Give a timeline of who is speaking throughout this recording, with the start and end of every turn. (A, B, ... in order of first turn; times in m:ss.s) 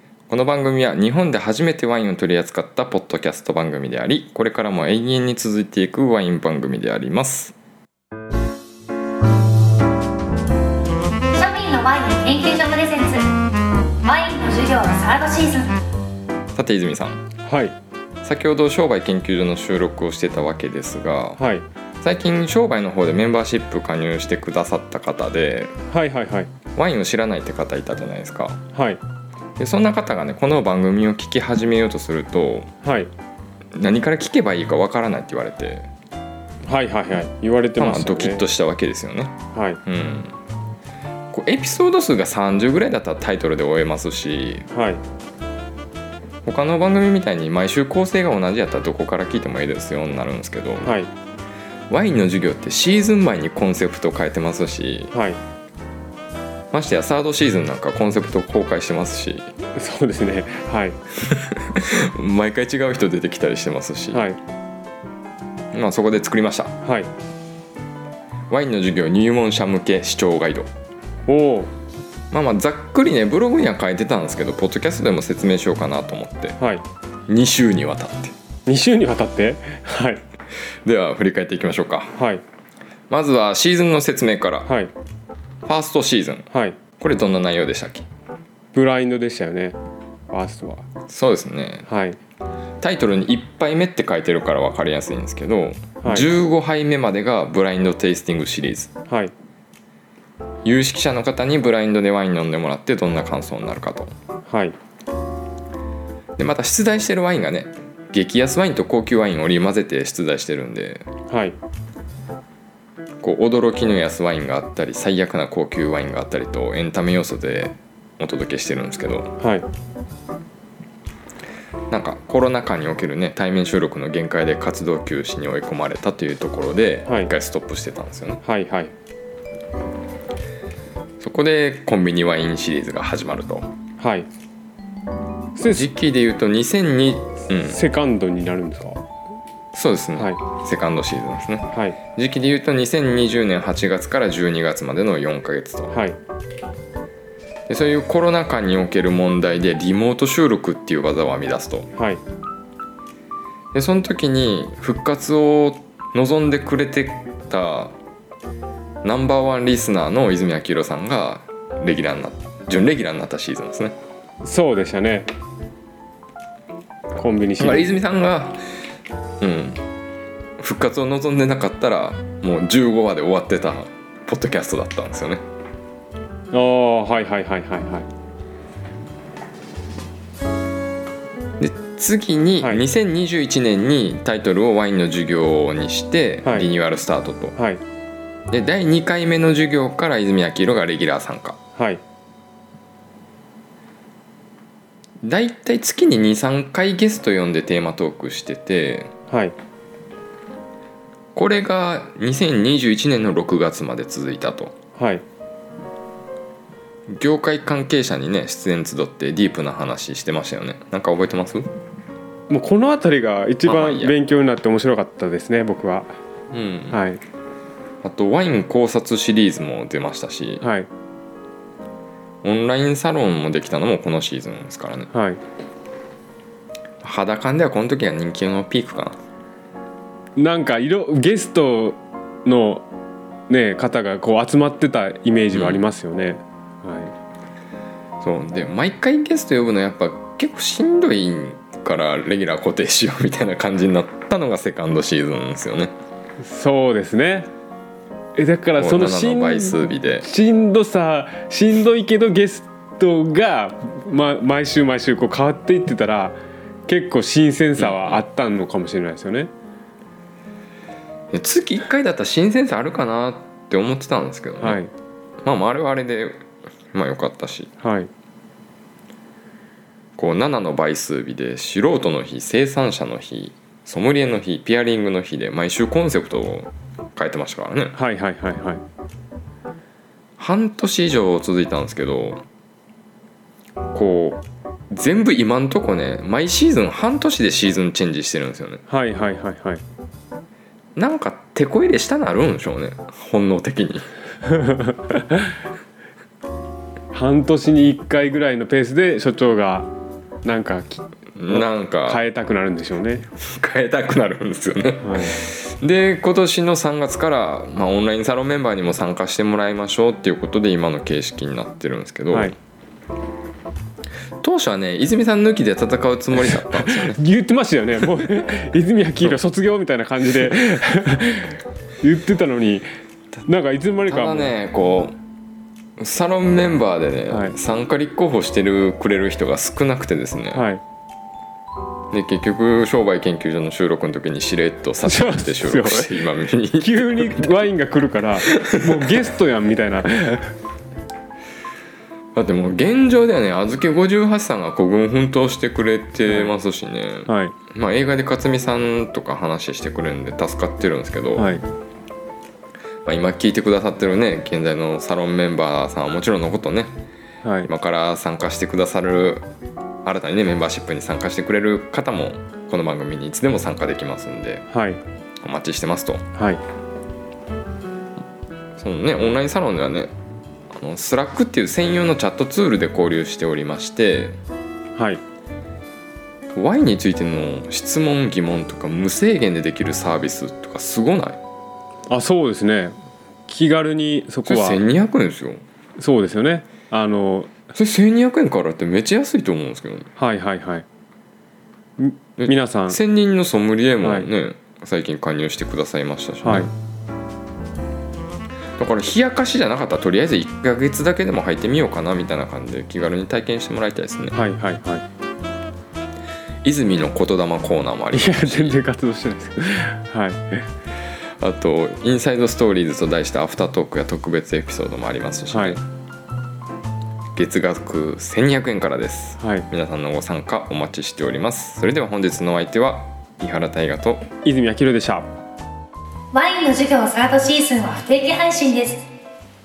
0:00.3-0:07.5 A
0:11.4-0:13.2 B
0:14.0-0:15.8 B
0:16.5-0:17.2 A
0:17.4-0:17.8 C
0:18.2-0:21.4 A
0:21.4-0:21.6 C
0:22.0-0:25.7 A
0:25.9-0:26.5 C
0:26.8-0:28.6 A
0:28.7-0:29.0 C
0:29.6-0:32.7 A
0:32.8-0:33.1 C
0:33.8-0:35.9 A
0:36.6-0:38.4 C
0:37.8-0:40.3 A
0:39.5-0:39.8 C
0:41.3-0:44.6 A
0:44.7-0:45.0 C
0:46.4-0:50.9 A
0:50.8-0:51.1 C
0:51.9-0:55.1 A
0:55.1-0:55.4 C
0:56.7-0:59.5 A
0:59.7-1:01.0 C
1:01.2-1:04.2 A
1:04.1-1:04.4 C
1:05.7-1:06.7 A
1:06.8-1:07.1 C
1:08.5-1:10.7 A
1:11.3-1:11.7 C
1:12.3-1:16.6 A
1:16.6-1:16.8 C
1:17.3-1:18.3 A
1:18.6-1:20.2 C
1:20.8-1:22.1 A
1:22.2-1:22.4 C
1:23.1-1:24.7 A
1:24.6-1:24.9 C
1:25.6-1:28.1 A
1:26.5-1:26.8 C
1:28.7-1:29.8 C
1:30.3-1:30.8 C
1:31.1-1:31.9 A
1:31.9-1:32.2 C
1:32.8-1:38.9 A
1:36.0-1:36.3 C
1:39.1-1:39.3 C
1:40.6-1:44.1 A
1:44.5-1:44.8 C
1:46.4-1:51.0 A
1:51.3-1:51.6 C
1:53.2-1:59.3 A
1:59.4-1:59.7 C
2:01.9-2:08.4 A
2:07.0-2:07.3 C
2:08.4-2:08.9 C
2:11.2-2:13.7 A
2:14.0-2:14.3 C
2:15.6-2:15.9 C
2:15.6-2:17.8 A
2:17.6-2:19.0 C
2:19.7-2:25.9 A
2:21.7-2:22.0 C
2:25.9-2:26.2 C
2:27.7-2:31.9 A
2:32.0-2:32.2 C
2:33.7-2:37.9 A
2:39.0-2:43.9 A
2:44.4-2:45.3 C
2:47.1-2:48.0 C
2:47.6-2:48.6 A
2:49.4-2:49.8 A
2:50.6-2:55.4 A
2:56.5-2:58.1 C
3:01.6-3:07.6 A
3:02.6-3:02.8 C
3:07.6-3:07.8 C
3:08.5-3:11.6 A
3:11.8-3:12.0 C
3:15.2-3:19.1 A
3:19.3-3:19.6 C
3:21.3-3:24.7 A
3:25.0-3:25.2 C
3:27.1-3:31.7 A
3:32.5-3:36.1 C
3:33.6-3:34.1 A
3:36.5-3:37.0 A
3:36.9-3:37.2 C
3:38.0-3:40.6 A
3:40.6-3:40.9 C
3:42.4-3:45.1 A
3:45.1-3:45.4 C
3:47.0-3:49.2 A
3:50.4-3:52.9 C
3:53.5-3:57.1 C
3:55.5-3:55.8 A
3:58.2-4:05.9 A
4:06.4-4:07.5 C
4:08.4-4:16.4 C
4:08.8-4:10.3 A
4:16.9-4:19.5 C
4:17.8-4:18.2 A
4:21.3-4:24.8 A
4:24.6-4:24.9 C
4:25.4-4:26.4 A
4:26.9-4:27.7 A
4:27.8-4:28.1 C
4:30.2-4:38.0 A
4:37.9-4:38.8 C
4:40.4-4:42.4 A
4:43.9-4:48.8 A
4:48.9-4:49.8 C
4:51.0-4:54.1 A
4:54.5-4:55.4 C
4:57.1-4:59.9 C
5:00.4-5:03.3 C
5:01.4-5:02.2 A
5:03.4-5:12.5 A
5:05.0-5:05.4 C
5:14.4-5:17.2 A
5:16.5-5:22.8 C
5:23.4-5:24.5 C
5:24.0-5:25.2 A
5:26.0-5:30.6 A
5:27.3-5:27.6 C
5:30.5-5:30.8 C
5:32.1-5:37.4 A
5:35.0-5:36.2 C
5:36.8-5:40.5 C
5:38.5-5:38.8 A
5:42.3-5:51.5 A
5:46.2-5:46.5 C
5:47.3-5:47.6 C
5:51.4-5:51.6 C
5:53.0-5:56.9 A
5:57.4-5:57.7 C
5:57.6-5:59.4 A
6:00.0-6:04.6 A
6:04.7-6:05.0 C
6:05.4-6:06.2 A
6:06.4-6:06.6 C
6:08.8-6:10.1 A
6:10.7-6:14.4 A
6:15.0-6:15.2 C
6:16.5-6:21.4 A
6:22.1-6:24.8 C
6:24.4-6:25.6 A
6:26.0-6:27.7 C
6:27.7-6:30.1 A
6:30.2-6:30.8 C
6:32.0-6:33.0 C
6:32.4-6:36.7 A
6:34.0-6:34.3 C
6:36.4-6:36.7 C
6:38.8-6:44.4 A
6:44.3-6:45.0 C
6:46.6-6:48.8 A
6:48.1-6:50.6 C
6:51.4-6:55.8 A
6:55.5-6:55.8 C
6:57.3-7:04.2 A
6:59.4-6:59.7 C
7:04.4-7:05.3 C
7:06.3-7:09.0 B